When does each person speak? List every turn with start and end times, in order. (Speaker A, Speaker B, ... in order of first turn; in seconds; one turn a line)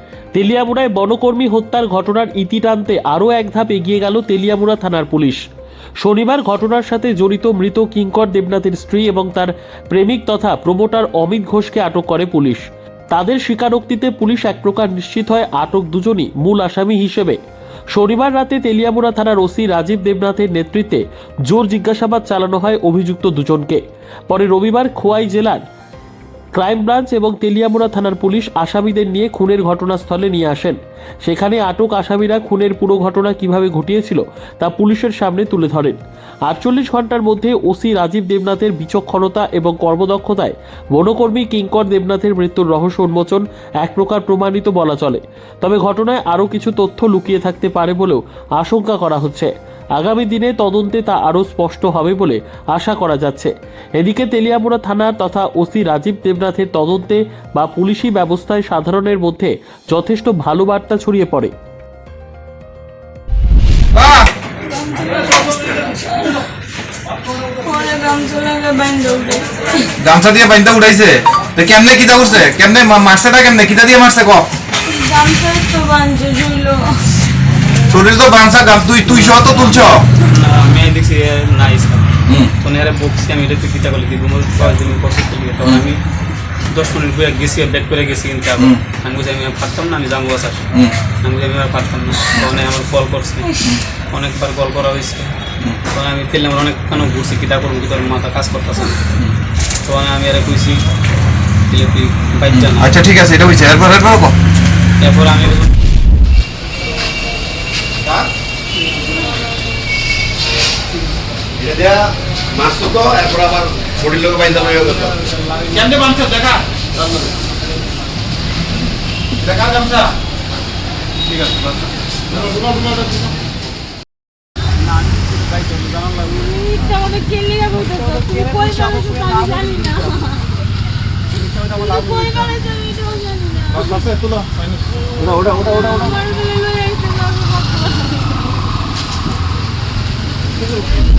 Speaker A: 0.4-5.4
Speaker A: 6.0-17.4
Speaker A: 17.9-25.6
Speaker A: 26.6-61.5
Speaker B: 64.0-64.3
Speaker C: 64.6-66.5
Speaker C: 67.5-70.0
Speaker B: 70.0-74.5
Speaker C: 74.8-77.2
Speaker B: 77.9-80.0
Speaker D: 79.1-86.0
Speaker B: 82.3-82.5
Speaker D: 86.7-90.7
Speaker D: 91.2-95.3
Speaker D: 95.9-99.1
Speaker D: 99.8-100.8
Speaker D: 101.7-103.0
Speaker B: 102.5-104.3
Speaker D: 105.0-105.8
Speaker E: 111.6-112.0
Speaker E: 112.5-115.2
Speaker B: 115.7-117.2
Speaker B: 119.4-120.1
Speaker B: 121.3-121.7
Speaker B: 122.3-123.3
Speaker C: 126.4-130.5
Speaker C: 131.7-134.1
Speaker C: 135.2-138.6